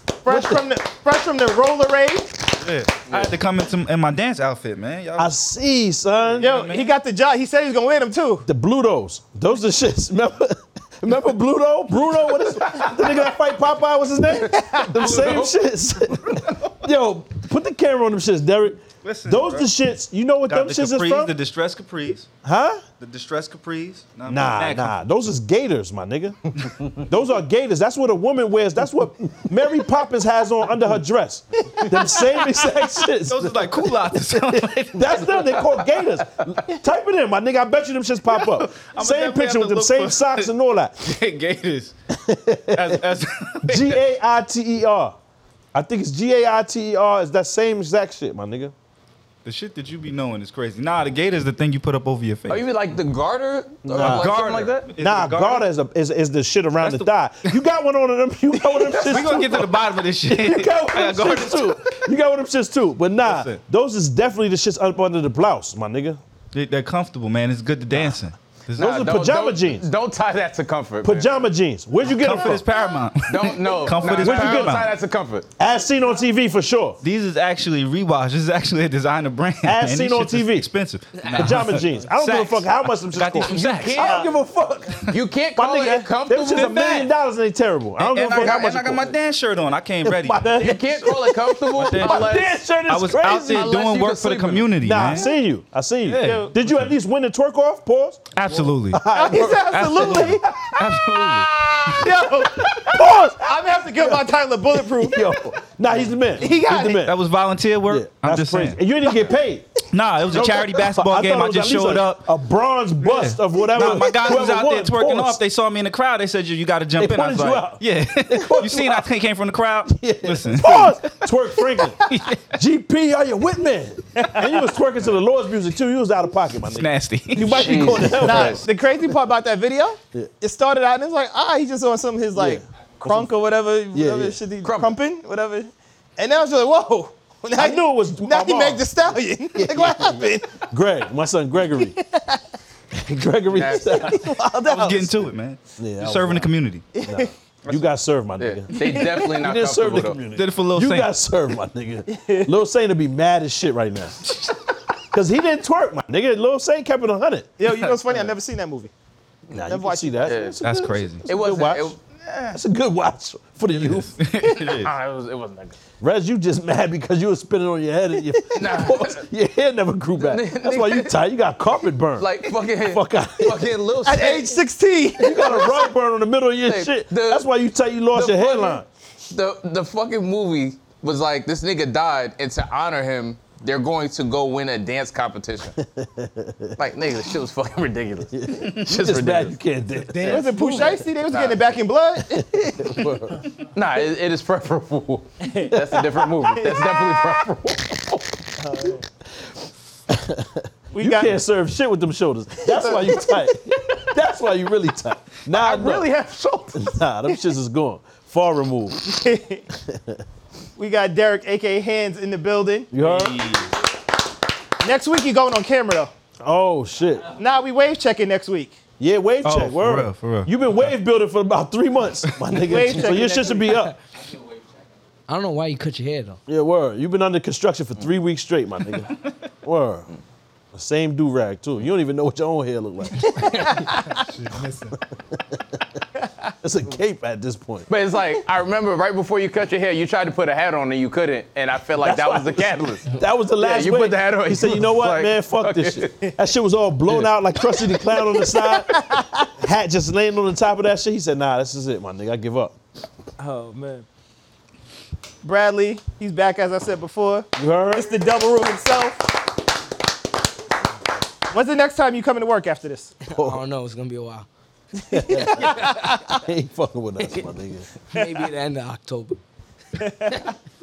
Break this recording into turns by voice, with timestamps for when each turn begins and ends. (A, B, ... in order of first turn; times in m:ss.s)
0:00.2-0:02.4 A
0:00.2-0:00.6 B
0:02.6-0:05.3 C
0:05.2-0:06.5 B
0:06.3-0:06.9 C
0:06.4-0:08.4 A
0:08.4-0:21.3 B
0:14.4-0:14.9 A
0:15.0-0:15.5 C
0:16.2-0:16.7 C
0:19.0-0:19.7 C
0:20.5-0:22.3 C
0:22.4-0:22.8 B
0:23.0-0:25.0 C
0:24.3-0:26.4 B
0:27.0-0:41.1 B
0:33.2-0:35.8 C
0:38.3-0:40.5 C
0:41.0-0:41.9 C
0:42.1-0:43.0 B
0:42.7-0:44.0 C
0:43.6-0:45.2 B
0:45.7-0:48.7 B
0:49.4-0:52.7 C
0:52.5-0:54.9 D
0:53.8-0:54.3 B
0:54.0-0:55.6 C
0:55.0-1:06.2 B
0:56.8-0:57.1 C
0:58.8-1:02.1 C
1:03.2-1:03.6 C
1:06.5-1:09.0 C
1:08.8-1:09.8 B
1:08.8-1:11.3 D
1:11.0-1:12.7 B
1:12.1-1:14.9 C
1:13.3-1:15.5 D
1:14.0-1:14.8 B
1:15.6-1:17.0 B
1:17.0-1:24.2 C
1:19.6-1:20.7 B
1:21.3-1:29.2 B
1:24.0-1:24.3 A
1:25.1-1:27.1 D
1:28.0-1:30.7 C
1:30.0-1:33.8 B
1:30.6-1:32.6 D
1:31.7-1:35.3 C
1:33.4-1:34.7 D
1:34.8-1:38.3 B
1:36.0-1:36.9 C
1:36.2-1:36.5 A
1:38.3-1:39.1 C
1:38.9-1:40.7 B
1:39.1-1:40.5 A
1:39.7-1:42.1 C
1:41.9-1:45.3 A
1:42.9-1:44.2 B
1:44.8-1:47.2 B
1:46.4-1:47.0 A
1:46.9-1:48.8 C
1:47.9-1:49.7 B
1:49.9-1:52.3 C
1:50.2-1:55.4 B
1:53.0-2:01.3 C
1:57.0-1:59.0 B
1:59.9-2:08.6 B
2:02.0-2:02.5 C
2:04.2-2:04.5 A
2:06.7-2:08.2 C
2:07.4-2:08.6 D
2:08.2-2:20.5 A
2:12.3-2:13.3 B
2:13.9-2:14.4 B
2:14.6-2:15.0 D
2:17.6-2:19.0 B
2:19.5-2:22.0 B
2:21.8-2:22.4 A
2:22.9-2:24.4 B
2:23.5-2:24.2 D
2:24.0-2:25.1 A
2:24.7-2:26.9 C
2:25.8-2:26.5 B
2:27.0-2:27.3 A
2:27.0-2:34.3 B
2:28.4-2:30.2 D
2:30.3-2:31.1 C
2:32.1-2:32.5 A
2:35.1-2:37.5 B
2:37.6-2:38.9 A
2:39.5-2:44.2 B
2:39.6-2:40.4 A
2:40.2-2:40.6 D
2:40.6-2:41.3 C
2:41.3-2:42.0 D
2:44.2-2:44.9 C
2:44.6-2:45.8 D
2:46.0-2:53.7 B
2:48.6-2:49.2 D
2:50.2-2:51.1 D
2:52.2-2:54.6 D
2:54.0-2:55.9 A
2:55.2-2:58.9 B
2:56.6-2:57.5 D
2:58.1-3:05.8 D
3:05.8-3:06.8 B
3:06.8-3:09.6 D
3:08.3-3:11.1 B
3:10.2-3:12.5 A
3:11.3-3:11.7 D
3:12.3-3:13.4 B
3:13.7-3:18.2 D
3:15.4-3:15.8 A
3:15.7-3:16.2 B
3:16.4-3:17.2 A
3:18.6-3:19.0 A
3:20.1-3:26.1 B
3:20.9-3:21.4 A
3:22.7-3:23.3 D
3:25.5-3:26.9 D
3:26.7-3:29.0 B
3:29.0-3:29.6 A
3:29.8-3:30.2 B
3:30.8-3:32.9 A
3:32.9-3:33.5 B
3:33.0-3:33.7 C
3:34.8-3:36.1 A
3:36.4-3:37.3 B
3:37.3-3:38.8 A
3:39.0-3:43.9 B
3:39.4-3:40.5 C
3:42.6-3:43.7 A
3:43.3-3:43.9 E
3:45.3-3:46.4 E
3:46.5-3:50.1 B
3:50.7-3:53.9 B
3:53.4-3:54.2 A
3:56.6-3:57.9 B
3:57.9-4:06.3 D
4:02.0-4:12.8 B
4:08.4-4:09.5 A
4:13.4-4:14.0 A
4:15.4-4:19.3 A
4:17.6-4:18.2 B
4:21.5-4:23.1 A
4:23.3-4:24.5 E
4:23.3-4:23.6 B
4:25.1-4:26.4 A
4:25.1-4:27.9 B
4:25.6-4:26.1 E
4:28.1-4:29.4 E
4:30.0-4:30.5 A